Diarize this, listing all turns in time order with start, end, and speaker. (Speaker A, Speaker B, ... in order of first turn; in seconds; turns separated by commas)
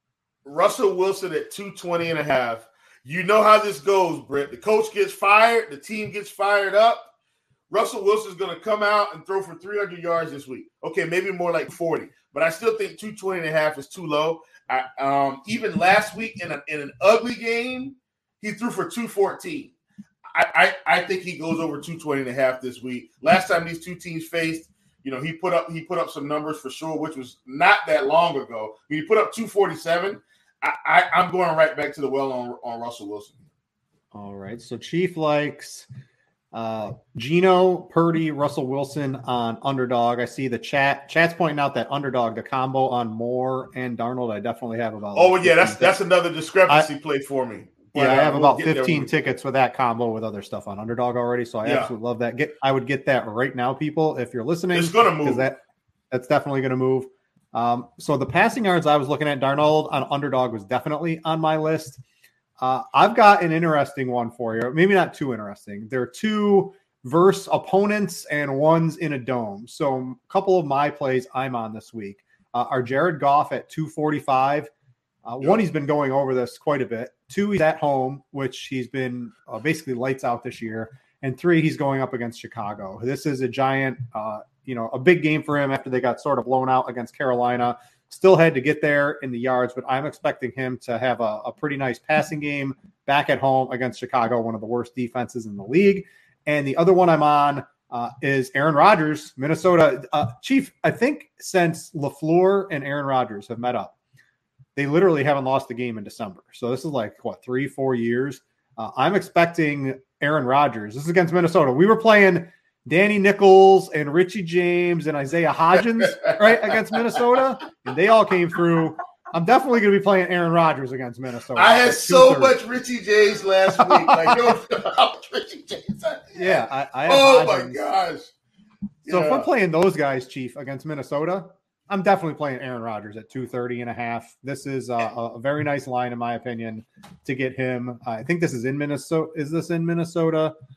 Speaker A: 0.5-7.1, Speaker A: 7.7-19.7, Speaker A: 20.3-33.4, Speaker B: 34.1-35.9, Speaker B: 36.5-46.0, Speaker A: 45.1-49.1, Speaker B: 48.0-55.6, Speaker A: 51.6-51.9, Speaker A: 54.7-55.5, Speaker B: 56.1-62.0, Speaker B: 62.6-74.7, Speaker B: 75.3-103.9, Speaker B: 104.8-122.5, Speaker A: 116.1-116.7, Speaker A: 121.5-128.3, Speaker B: 123.9-124.3, Speaker B: 126.3-127.8, Speaker A: 129.1-129.5, Speaker B: 129.1-140.5